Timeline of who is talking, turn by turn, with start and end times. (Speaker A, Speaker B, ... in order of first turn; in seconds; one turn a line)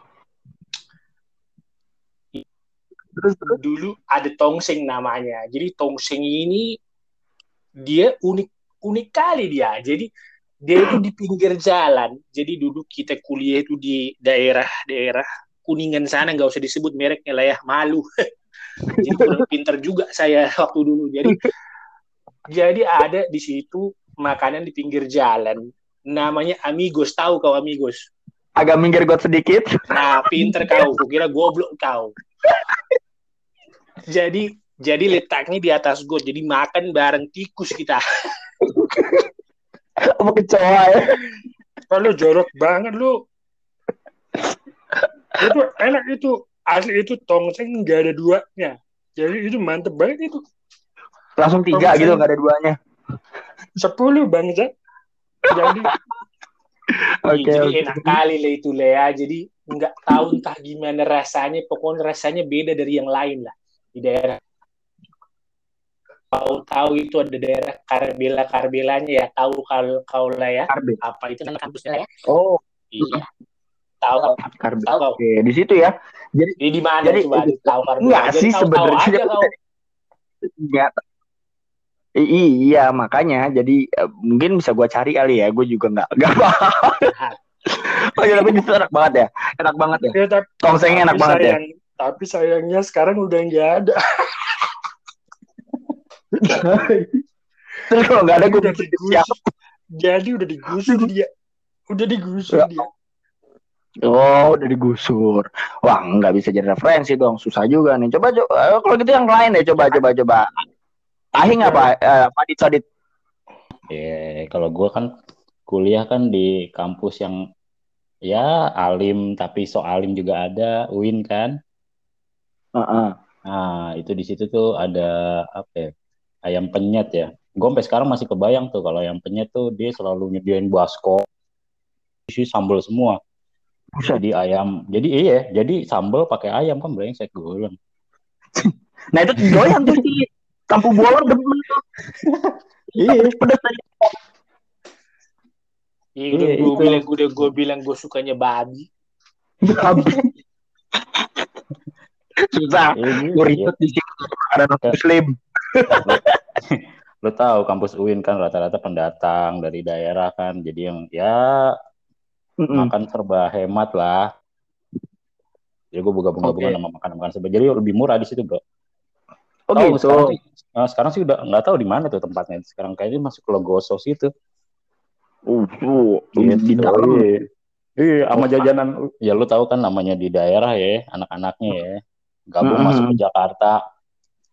Speaker A: 3.1-3.6
Speaker B: 3.5-6.7
Speaker B: 7.8-10.1
Speaker B: 10.6-18.0
Speaker B: 19.0-21.4
Speaker A: 19.1-19.4
Speaker B: 22.5-28.1
Speaker A: 28.6-29.7
Speaker B: 29.9-32.1
Speaker A: 30.2-30.9
Speaker A: 32.4-32.8
Speaker B: 34.1-38.0
Speaker A: 38.6-39.3
Speaker A: 40.0-41.2
Speaker C: 41.9-43.1
Speaker C: 45.4-50.4
Speaker A: 51.4-52.8
Speaker C: 51.7-52.2
Speaker C: 53.8-54.7
Speaker C: 55.5-55.9
Speaker A: 55.5-56.0
Speaker A: 57.2-58.2
Speaker B: 57.3-64.4
Speaker B: 66.3-72.0
Speaker A: 70.7-71.0
Speaker A: 72.3-73.2
Speaker B: 72.9-73.2
Speaker B: 74.0-75.2
Speaker A: 74.2-79.5
Speaker B: 76.6-79.5
Speaker A: 80.4-81.0
Speaker A: 82.2-87.1
Speaker A: 87.7-91.6
Speaker C: 90.1-94.6
Speaker A: 96.3-97.2
Speaker A: 97.9-99.4
Speaker C: 98.4-99.3
Speaker C: 100.0-101.3
Speaker C: 101.9-102.9
Speaker A: 102.5-102.8
Speaker A: 104.0-110.5
Speaker A: 111.4-112.8
Speaker D: 113.9-115.1
Speaker D: 115.7-117.4
Speaker D: 118.3-121.5
Speaker A: 122.8-123.2
Speaker D: 123.5-125.9
Speaker D: 126.5-131.2
Speaker D: 132.3-133.2
Speaker D: 134.1-137.8
Speaker A: 138.6-141.8
Speaker D: 139.4-140.0
Speaker D: 142.2-143.3
Speaker A: 143.0-144.2
Speaker B: 146.2-148.8
Speaker D: 146.3-147.0
Speaker A: 146.6-147.0
Speaker A: 149.6-150.3
Speaker D: 150.0-150.3
Speaker A: 152.4-156.4
Speaker D: 152.9-153.7
Speaker D: 156.1-161.8
Speaker A: 162.6-162.9
Speaker D: 162.7-164.3
Speaker D: 165.9-168.6
Speaker A: 166.4-166.7
Speaker A: 169.7-170.3
Speaker D: 169.7-174.3
Speaker A: 175.5-177.3
Speaker D: 176.4-177.5
Speaker D: 178.0-183.8
Speaker A: 178.3-178.7
Speaker A: 182.6-183.2